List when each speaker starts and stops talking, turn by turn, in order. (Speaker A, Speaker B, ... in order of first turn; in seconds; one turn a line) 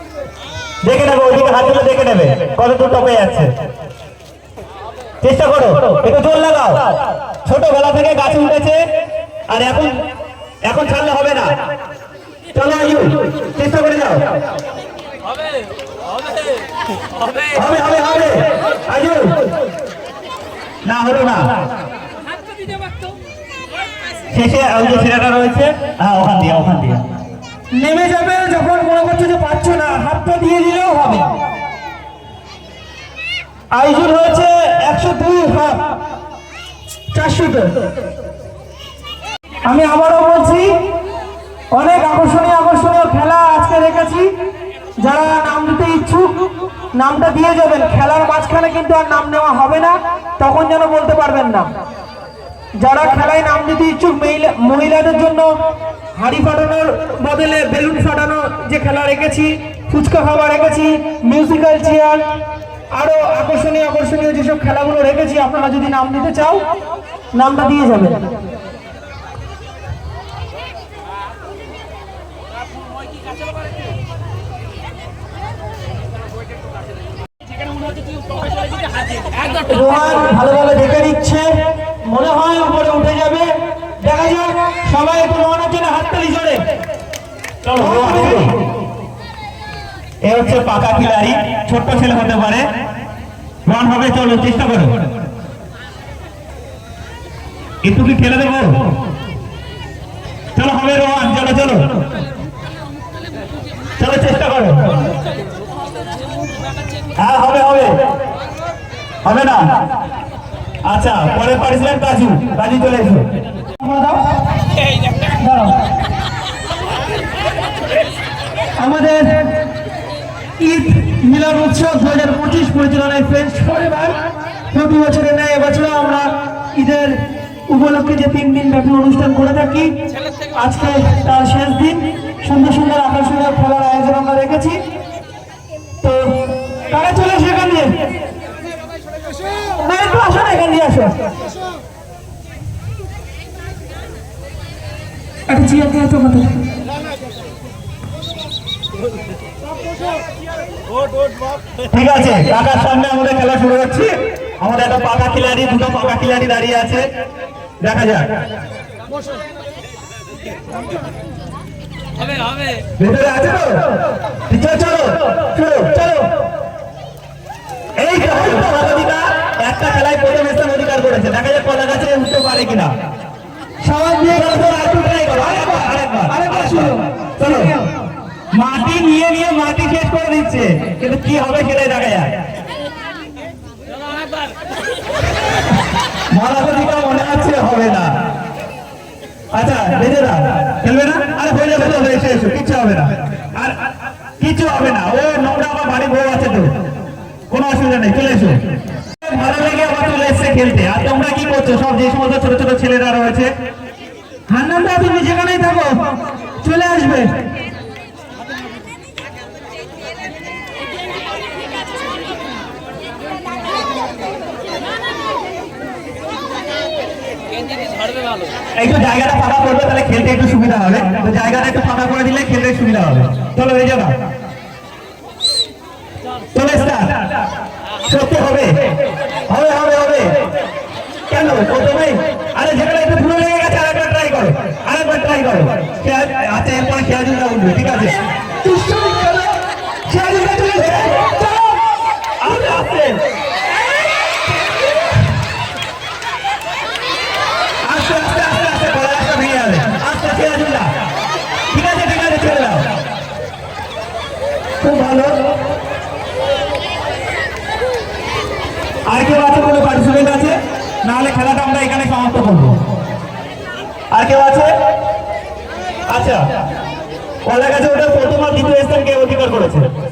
Speaker A: 0.8-3.5
Speaker A: 5.2-6.8
Speaker A: 7.4-8.8
Speaker A: 9.5-9.9
Speaker A: 10.7-11.5
Speaker A: 12.5-14.2
Speaker A: 17.5-19.3
Speaker A: 20.8-21.5
Speaker A: 24.3-27.0
Speaker B: 27.7-31.3
Speaker B: 33.7-35.8
Speaker B: 37.1-37.7
Speaker B: 39.6-40.8
Speaker B: 41.7-44.3
Speaker B: 45.0-51.7
Speaker B: 52.8-55.5
Speaker B: 56.1-62.2
Speaker B: 62.9-66.6
Speaker B: 67.3-68.2
Speaker B: 79.6-86.6
Speaker A: 87.6-88.5
Speaker B: 87.7-88.5
Speaker A: 90.2-92.7
Speaker A: 93.7-95.0
Speaker A: 97.8-98.7
Speaker A: 100.5-101.8
Speaker A: 104.0-104.9
Speaker A: 107.2-108.0
Speaker A: 109.2-109.7
Speaker A: 110.8-113.2
Speaker B: 113.8-114.4
Speaker B: 115.2-115.8
Speaker B: 118.8-119.6
Speaker B: 120.6-124.2
Speaker B: 124.7-129.9
Speaker B: 130.5-134.8
Speaker B: 136.0-137.9
Speaker B: 139.8-141.1
Speaker B: 145.5-146.6
Speaker A: 151.9-157.1
Speaker A: 157.8-158.3
Speaker A: 163.0-163.8
Speaker A: 164.5-165.9
Speaker B: 165.8-166.3
Speaker A: 168.0-172.9
Speaker B: 173.8-174.7
Speaker A: 174.3-177.7
Speaker B: 175.3-177.8
Speaker A: 178.5-182.3
Speaker A: 186.3-188.1
Speaker A: 189.5-193.8
Speaker A: 194.4-196.7
Speaker A: 197.5-198.6
Speaker A: 199.2-203.5
Speaker B: 204.5-206.0
Speaker B: 206.6-207.3
Speaker A: 218.8-224.1
Speaker A: 226.5-227.2
Speaker A: 228.0-228.7
Speaker A: 229.5-230.3
Speaker A: 231.3-238.1
Speaker B: 238.6-241.8
Speaker A: 242.4-243.2
Speaker A: 247.8-250.9
Speaker A: 251.7-252.9
Speaker A: 254.8-255.3
Speaker A: 259.1-262.8
Speaker A: 264.1-264.7
Speaker A: 266.1-266.4
Speaker A: 267.4-269.9